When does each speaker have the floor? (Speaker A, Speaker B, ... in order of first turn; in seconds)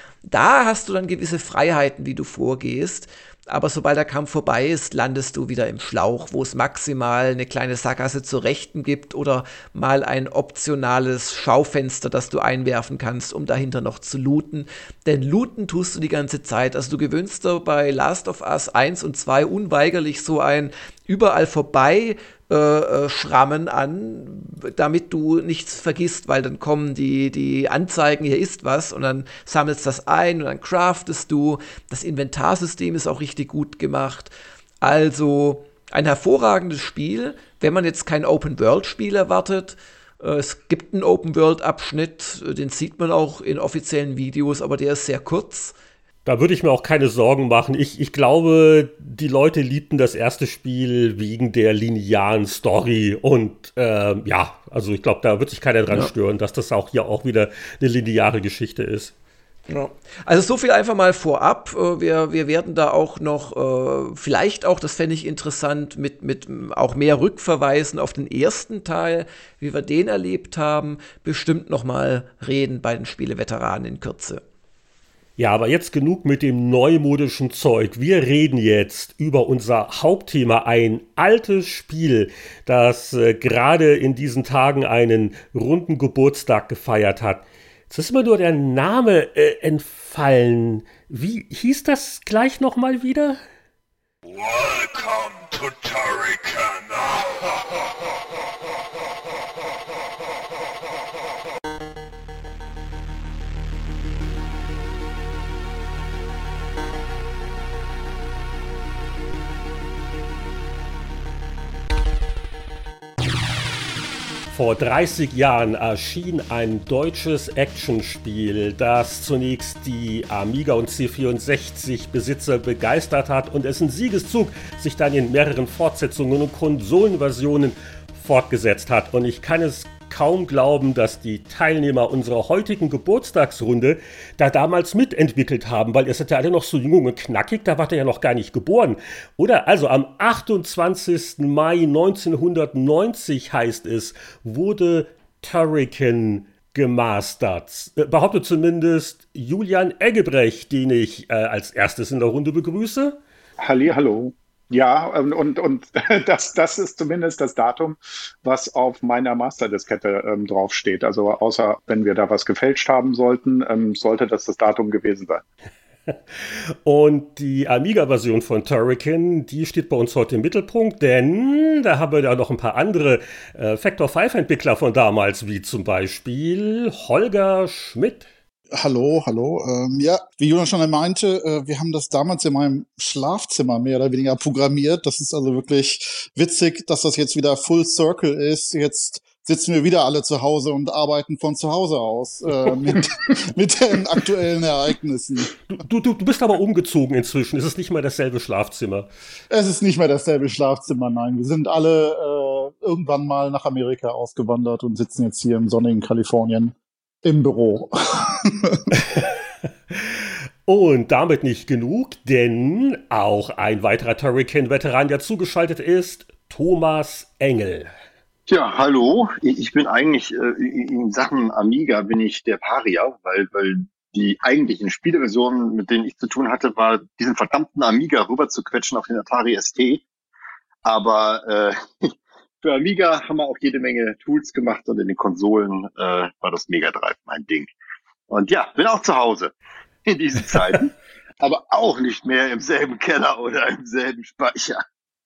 Speaker A: 0.3-45.8, 59.7-74.4
Speaker B: 46.2-59.1, 75.4-93.4, 94.7-96.8, 114.5-153.2, 166.1-178.3, 195.7-199.1, 209.9-217.9
Speaker C: 153.6-165.4
Speaker D: 178.7-195.5, 199.5-208.8
Speaker E: 218.5-230.1, 230.8-237.7, 238.3-239.5, 240.1-244.8